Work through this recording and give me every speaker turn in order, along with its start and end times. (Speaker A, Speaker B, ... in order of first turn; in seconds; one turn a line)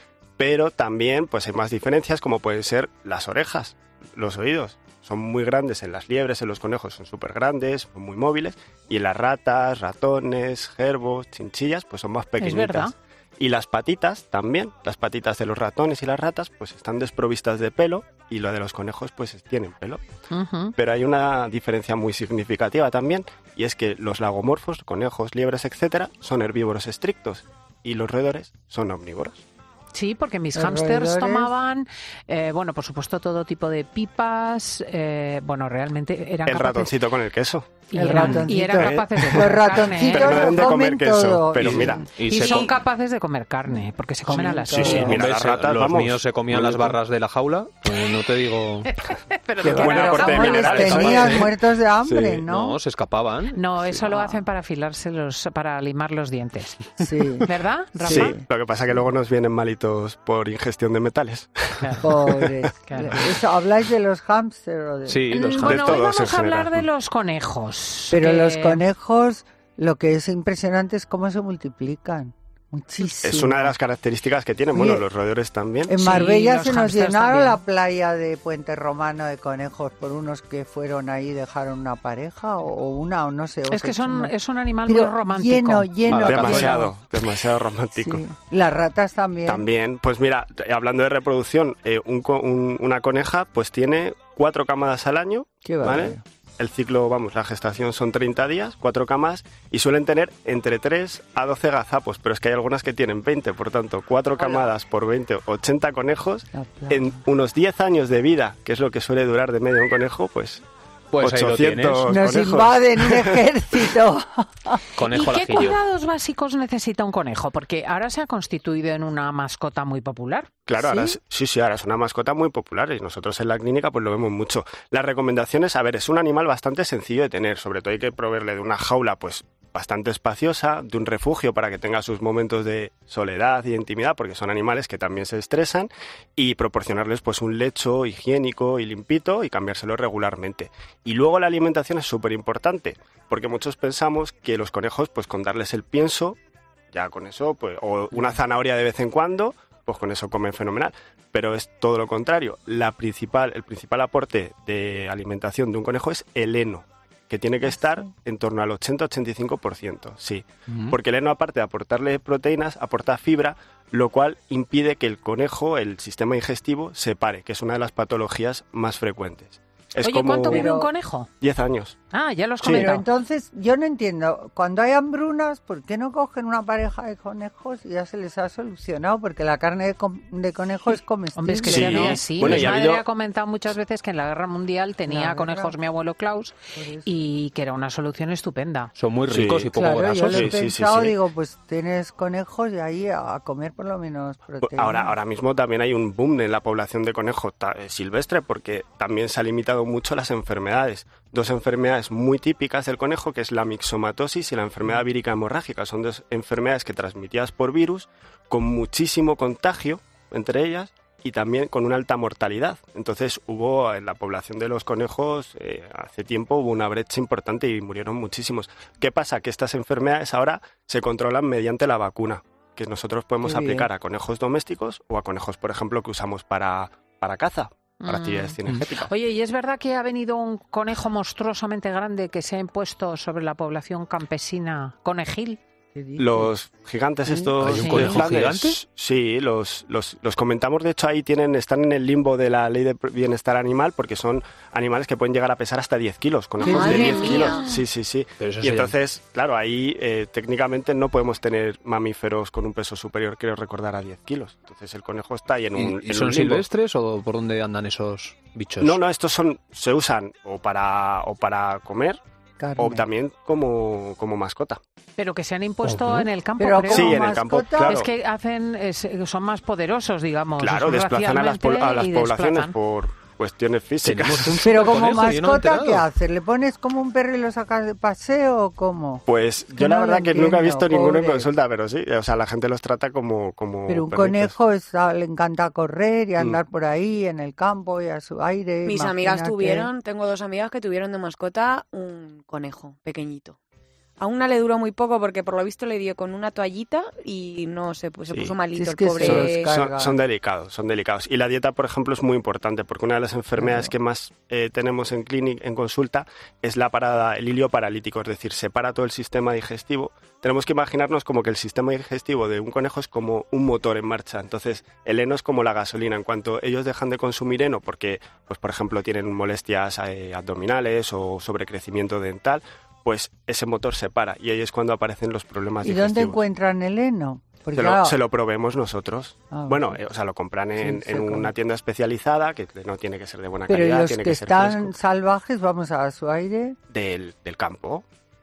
Speaker A: 0.4-20.0
Speaker B: 12.4-12.9
Speaker B: 20.3-20.7
Speaker A: 20.8-29.4
Speaker B: 29.9-37.0
Speaker C: 30.5-31.5
Speaker A: 36.5-39.5
Speaker B: 37.9-40.7
Speaker C: 37.9-42.0
Speaker A: 40.1-42.0
Speaker D: 41.6-42.7
Speaker B: 42.2-45.2
Speaker C: 43.7-45.2
Speaker D: 44.7-48.9
Speaker A: 44.9-47.0
Speaker B: 48.8-51.4
Speaker A: 49.6-51.5
Speaker C: 49.8-52.8
Speaker D: 50.1-51.4
Speaker A: 52.0-52.4
Speaker D: 52.4-53.6
Speaker B: 53.5-58.4
Speaker C: 54.1-54.4
Speaker C: 57.0-57.5
Speaker C: 58.0-59.1
Speaker A: 58.1-62.6
Speaker B: 61.8-62.0
Speaker C: 62.0-65.3
Speaker B: 62.9-63.2
Speaker D: 65.1-66.0
Speaker B: 65.3-68.8
Speaker A: 65.6-66.8
Speaker C: 68.1-73.7
Speaker A: 73.2-76.0
Speaker C: 74.7-75.0
Speaker C: 75.8-84.3
Speaker B: 76.0-77.6
Speaker B: 83.7-85.9
Speaker C: 84.8-86.9
Speaker A: 86.1-88.2
Speaker D: 86.1-86.8
Speaker C: 88.0-89.7
Speaker A: 89.5-110.6
Speaker C: 95.6-96.2
Speaker E: 104.4-104.7
Speaker C: 106.5-107.2
Speaker D: 111.1-112.2
Speaker A: 111.2-113.4
Speaker C: 112.1-114.8
Speaker D: 115.0-115.8
Speaker B: 115.1-120.5
Speaker A: 120.7-146.4
Speaker C: 120.8-121.2
Speaker A: 146.9-170.7
Speaker B: 170.0-171.3
Speaker C: 170.5-170.9
Speaker A: 171.4-171.9
Speaker B: 172.1-173.0
Speaker A: 172.6-172.9
Speaker C: 172.6-182.6
Speaker B: 181.3-188.9
Speaker A: 181.7-183.0
Speaker C: 185.1-185.8
Speaker C: 186.8-187.1
Speaker D: 188.9-190.5
Speaker A: 189.3-189.7
Speaker C: 189.7-195.2
Speaker A: 190.3-191.2
Speaker A: 194.6-229.1
Speaker C: 223.4-223.9
Speaker B: 228.0-235.6
Speaker C: 235.9-236.5
Speaker A: 236.2-256.7
Speaker D: 237.6-238.8
Speaker B: 237.6-238.2
Speaker E: 246.6-247.7
Speaker B: 246.7-247.6
Speaker D: 248.4-248.9
Speaker D: 255.7-259.0
Speaker A: 258.8-262.2
Speaker C: 262.6-263.1
Speaker A: 262.8-264.8
Speaker B: 265.2-272.7
Speaker D: 265.8-266.3
Speaker C: 266.6-268.0
Speaker A: 266.9-268.1
Speaker A: 270.6-274.9
Speaker D: 274.0-276.0
Speaker C: 274.6-281.5
Speaker A: 279.3-284.6
Speaker C: 283.9-289.9
Speaker E: 288.9-293.6
Speaker E: 294.2-299.7
Speaker A: 298.3-298.6
Speaker C: 298.7-300.2
Speaker A: 299.2-326.4
Speaker C: 303.6-303.9
Speaker C: 325.8-328.2
Speaker A: 327.7-334.9
Speaker C: 329.5-330.0
Speaker C: 330.8-331.5
Speaker C: 333.7-336.8
Speaker A: 336.9-338.0